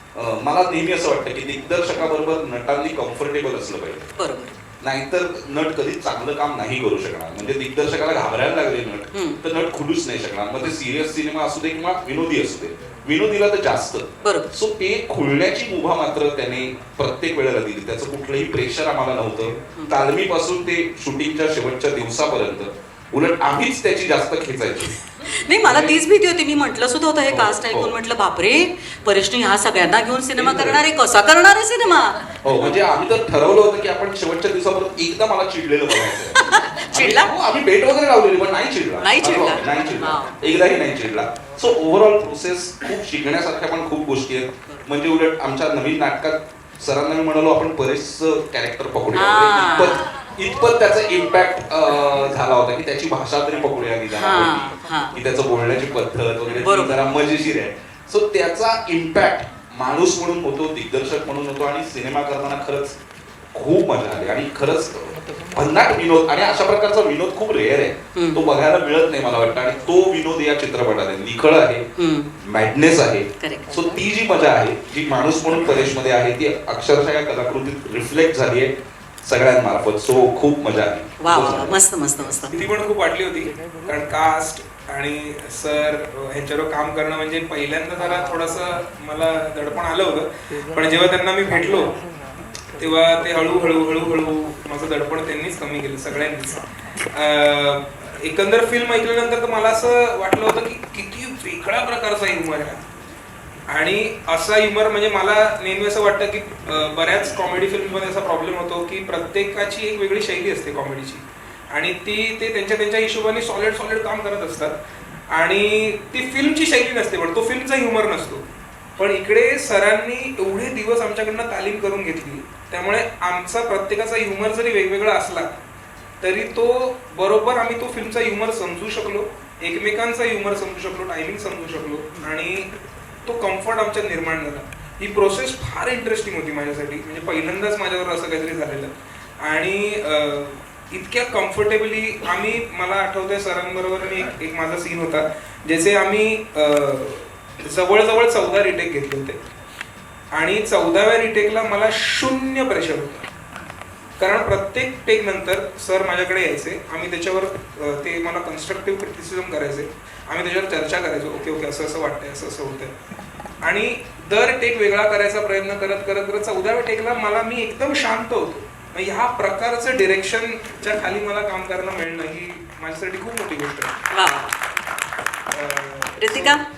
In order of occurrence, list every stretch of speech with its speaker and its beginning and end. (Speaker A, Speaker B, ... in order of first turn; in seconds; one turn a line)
Speaker A: 0.1-4.1
Speaker B: 4.2-4.6
Speaker A: 4.8-25.0
Speaker B: 9.1-9.4
Speaker B: 14.2-14.5
Speaker B: 25.3-32.2
Speaker A: 25.6-26.0
Speaker A: 27.3-27.9
Speaker A: 30.4-30.9
Speaker A: 32.4-36.4
Speaker B: 36.1-37.3
Speaker A: 36.9-63.0
Speaker B: 39.0-40.4
Speaker B: 49.1-50.1
Speaker B: 54.1-55.2
Speaker B: 56.5-57.0
Speaker A: 63.5-71.9
Speaker B: 68.1-68.4
Speaker B: 72.0-72.3
Speaker A: 72.4-78.7
Speaker B: 73.4-73.8
Speaker A: 79.2-81.8
Speaker B: 81.2-82.7
Speaker C: 82.6-91.9
Speaker C: 92.8-102.8
Speaker C: 103.7-114.7
Speaker C: 115.3-118.4
Speaker C: 119.0-125.5
Speaker C: 126.2-132.7
Speaker C: 133.3-149.4
Speaker C: 150.3-153.2
Speaker C: 154.2-162.9
Speaker C: 163.6-174.0
Speaker B: 174.1-174.6
Speaker C: 175.5-176.6
Speaker B: 176.2-176.6